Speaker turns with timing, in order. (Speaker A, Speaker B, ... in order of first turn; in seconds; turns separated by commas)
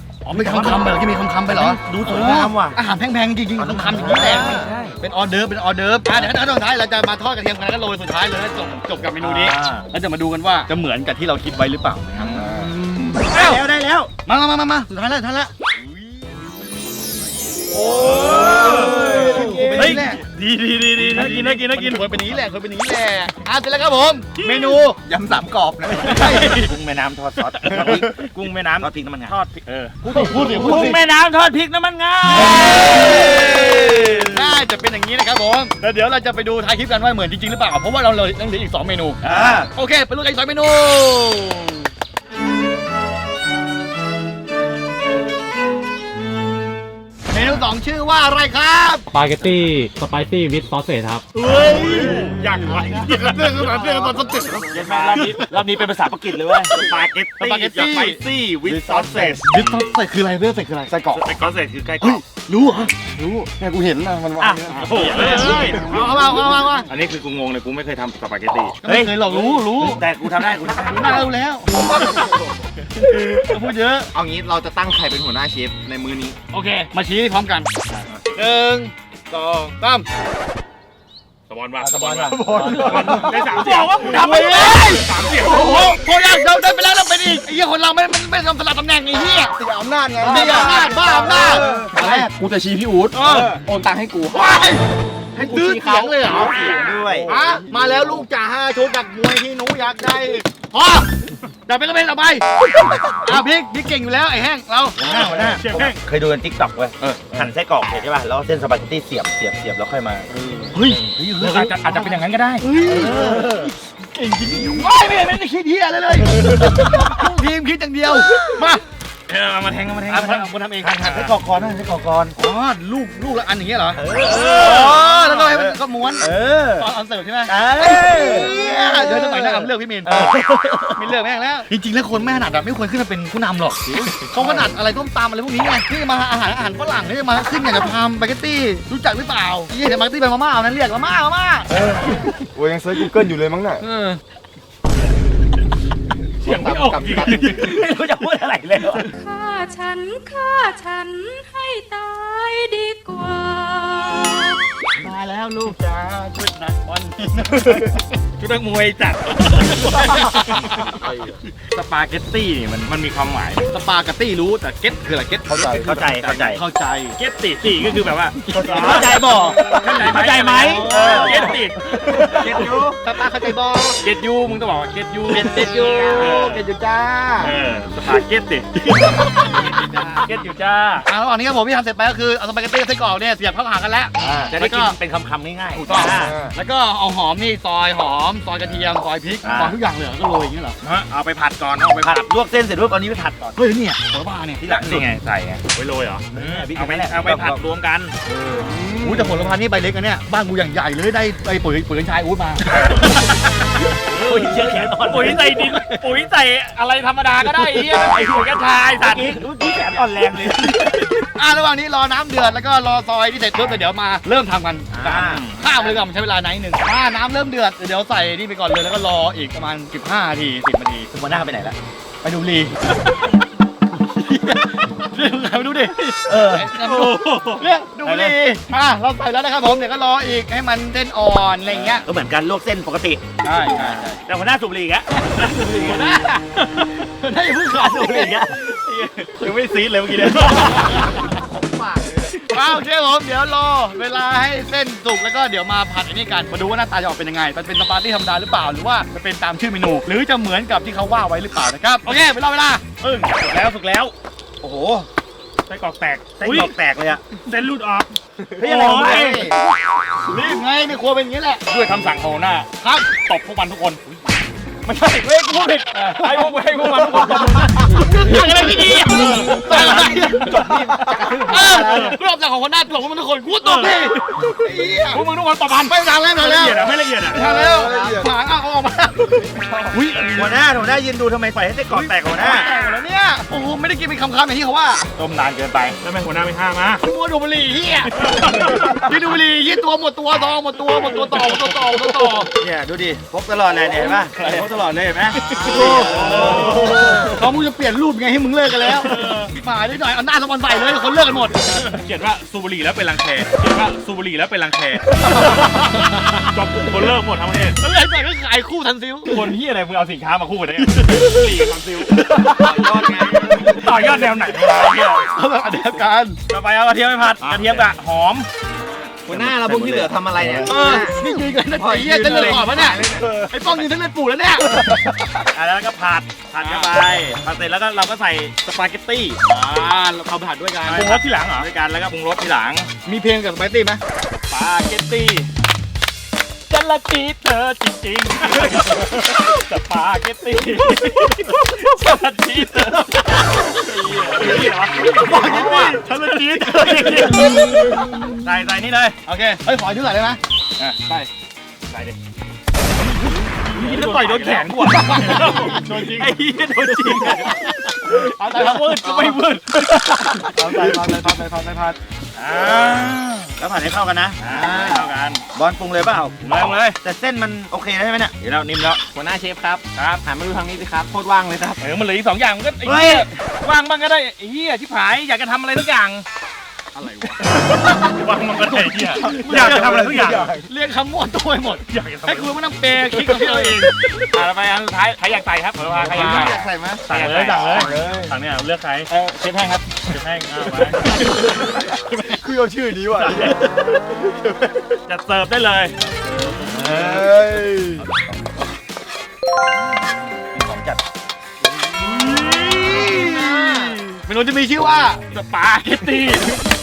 Speaker A: 0.2-12.4, Speaker B: 0.3-0.9, Speaker B: 1.5-2.8, Speaker B: 3.6-4.8, Speaker C: 3.9-4.9, Speaker D: 4.2-4.7, Speaker B: 9.2-9.8, Speaker C: 12.2-12.5, Speaker B: 12.3-14.1, Speaker D: 12.4-13.2, Speaker A: 13.3-13.6, Speaker A: 14.2-15.5, Speaker B: 17.8-20.1, Speaker D: 17.8-20.0, Speaker C: 17.8-22.1, Speaker A: 19.1-20.2, Speaker A: 21.0-25.0, Speaker D: 25.0-26.4, Speaker A: 26.0-26.7, Speaker B: 26.0-29.4, Speaker C: 26.2-26.6, Speaker C: 27.5-30.3, Speaker A: 30.0-31.0, Speaker B: 30.1-34.5, Speaker A: 32.6-33.4, Speaker C: 33.0-33.4, Speaker A: 34.2-39.2, Speaker B: 39.2-39.7, Speaker A: 39.7-41.8, Speaker A: 47.3-49.0, Speaker E: 49.1-51.2, Speaker A: 51.4-52.3, Speaker C: 51.4-53.7, Speaker A: 53.0-55.3, Speaker D: 53.4-54.6, Speaker B: 54.7-57.1, Speaker C: 54.7-55.6, Speaker C: 56.7-59.9, Speaker A: 57.4-58.2, Speaker D: 58.6-59.4, Speaker A: 59.5-61.0, Speaker D: 60.9-61.2, Speaker C: 61.1-62.2, Speaker A: 62.0-62.9, Speaker D: 63.0-66.1, Speaker B: 64.4-65.8, Speaker C: 64.7-65.8, Speaker A: 64.7-66.9, Speaker C: 66.9-68.8, Speaker A: 68.8-70.0, Speaker B: 68.8-71.3, Speaker A: 70.8-72.3, Speaker D: 71.8-72.3, Speaker A: 73.3-74.1, Speaker D: 74.1-76.4, Speaker A: 76.5-77.7, Speaker C: 77.9-78.2, Speaker A: 78.3-78.9, Speaker A: 79.7-80.0, Speaker C: 81.5-85.9, Speaker B: 81.8-83.3, Speaker D: 82.4-83.4, Speaker A: 82.5-89.5, Speaker D: 89.5-94.8, Speaker A: 90.2-92.3, Speaker A: 93.1-93.5, Speaker A: 94.3-94.8, Speaker D: 95.3-98.2, Speaker A: 95.3-96.5, Speaker B: 96.5-97.3, Speaker A: 97.2-101.1, Speaker A: 101.7-105.0, Speaker B: 105.0-110.3, Speaker C: 105.2-106.0, Speaker A: 110.7-118.8, Speaker C: 111.4-112.6, Speaker B: 112.9-113.7, Speaker C: 119.3-120.3, Speaker A: 120.1-121.3, Speaker B: 120.1-122.3, Speaker A: 122.4-141.7, Speaker B: 124.0-126.9, Speaker C: 124.2-124.9, Speaker B: 127.5-131.1, Speaker D: 141.8-143.8, Speaker D: 146.4-147.8, Speaker C: 146.4-147.8, Speaker B: 147.4-149.1, Speaker F: 149.1-154.6, Speaker A: 155.0-157.9, Speaker B: 155.0-155.8, Speaker C: 158.4-160.7, Speaker A: 159.8-160.5, Speaker D: 160.9-161.3, Speaker C: 161.7-163.6, Speaker A: 163.7-167.2, Speaker D: 165.5-165.9, Speaker B: 165.5-166.6, Speaker C: 167.2-169.1, Speaker A: 168.6-171.6, Speaker B: 168.6-171.6, Speaker D: 168.7-169.8, Speaker C: 169.7-172.8, Speaker D: 171.0-171.4, Speaker D: 172.1-173.0, Speaker A: 173.0-174.0, Speaker C: 174.0-176.6, Speaker D: 175.3-177.5, Speaker A: 175.3-176.4, Speaker C: 177.4-178.9, Speaker C: 180.2-181.1, Speaker A: 181.1-184.9, Speaker D: 184.2-184.5, Speaker B: 184.4-186.3, Speaker A: 185.7-190.8, Speaker D: 185.9-186.5, Speaker B: 189.4-189.8, Speaker C: 190.8-192.3, Speaker B: 192.0-193.5, Speaker A: 193.5-194.6, Speaker B: 194.6-195.1, Speaker C: 194.7-198.1, Speaker B: 196.3-197.6, Speaker D: 198.3-199.6, Speaker A: 199.0-202.7, Speaker C: 202.7-203.5, Speaker B: 204.1-205.5, Speaker C: 204.2-210.0, Speaker A: 207.4-208.7, Speaker B: 209.0-211.1, Speaker C: 210.6-211.1, Speaker A: 211.2-221.1, Speaker B: 214.9-215.5, Speaker C: 215.1-215.6, Speaker B: 221.1-221.8, Speaker A: 222.2-222.9, Speaker A: 224.0-232.1, Speaker B: 226.2-226.7, Speaker C: 226.8-227.6, Speaker B: 228.0-228.4, Speaker B: 231.7-235.1, Speaker A: 233.4-234.1, Speaker C: 233.5-233.9, Speaker A: 235.3-238.4, Speaker B: 237.8-238.7, Speaker C: 238.8-241.2, Speaker A: 240.2-241.0, Speaker A: 242.4-252.8, Speaker C: 253.0-254.1, Speaker B: 254.6-255.1, Speaker C: 255.7-256.7, Speaker B: 256.4-257.2, Speaker C: 257.4-258.1, Speaker B: 258.6-259.5, Speaker C: 258.6-259.5, Speaker A: 258.6-259.6, Speaker A: 260.2-261.6, Speaker C: 261.7-264.0, Speaker A: 262.8-263.2, Speaker C: 264.8-272.1, Speaker A: 267.2-275.2, Speaker D: 269.4-272.1, Speaker C: 273.6-274.5, Speaker C: 275.1-277.4, Speaker A: 275.9-280.7, Speaker D: 277.3-278.3, Speaker D: 279.5-279.9, Speaker B: 280.3-282.7, Speaker A: 281.9-285.1, Speaker C: 285.2-287.0, Speaker A: 287.0-292.5, Speaker C: 288.2-289.0, Speaker C: 291.0-291.6, Speaker B: 292.6-297.1, Speaker C: 295.5-297.2, Speaker A: 295.6-301.8, Speaker D: 295.8-296.9, Speaker C: 299.0-299.5, Speaker C: 301.7-307.8, Speaker A: 305.4-306.4, Speaker A: 307.8-309.4, Speaker C: 309.2-313.0, Speaker A: 311.0-311.4, Speaker D: 312.5-314.1, Speaker C: 313.6-315.3, Speaker A: 315.1-316.4, Speaker B: 316.5-318.5, Speaker C: 317.4-317.9, Speaker D: 319.2-321.2, Speaker B: 319.3-320.1, Speaker C: 319.3-320.6, Speaker A: 320.6-324.8, Speaker D: 321.7-323.5, Speaker D: 324.7-325.2, Speaker B: 325.5-328.5, Speaker C: 328.6-329.4, Speaker A: 329.5-331.2, Speaker C: 330.8-332.9, Speaker A: 333.0-334.0, Speaker C: 334.3-335.5, Speaker C: 336.7-349.1, Speaker A: 345.0-347.5, Speaker B: 348.4-349.1, Speaker A: 349.2-350.4, Speaker C: 351.9-352.1, Speaker A: 353.1-356.3, Speaker C: 353.7-361.0, Speaker A: 357.1-359.3, Speaker D: 360.5-362.0, Speaker C: 362.4-363.5, Speaker B: 363.6-365.0, Speaker C: 364.4-365.4, Speaker B: 365.5-369.0, Speaker C: 366.4-367.0, Speaker D: 369.1-371.8, Speaker C: 369.9-370.2, Speaker C: 371.8-376.2, Speaker B: 372.8-373.3, Speaker A: 376.9-377.3, Speaker C: 377.5-380.5, Speaker A: 379.1-383.9, Speaker D: 379.1-380.7, Speaker C: 381.9-382.6, Speaker C: 383.1-389.1, Speaker D: 385.9-388.3, Speaker A: 386.0-386.5, Speaker B: 387.1-387.6, Speaker D: 389.1-389.8, Speaker C: 390.1-391.1, Speaker D: 391.1-393.7, Speaker C: 393.1-393.6, Speaker C: 395.1-395.9, Speaker D: 396.5-398.0, Speaker B: 400.5-401.0, Speaker D: 402.0-404.0, Speaker A: 402.1-405.3, Speaker C: 405.3-406.5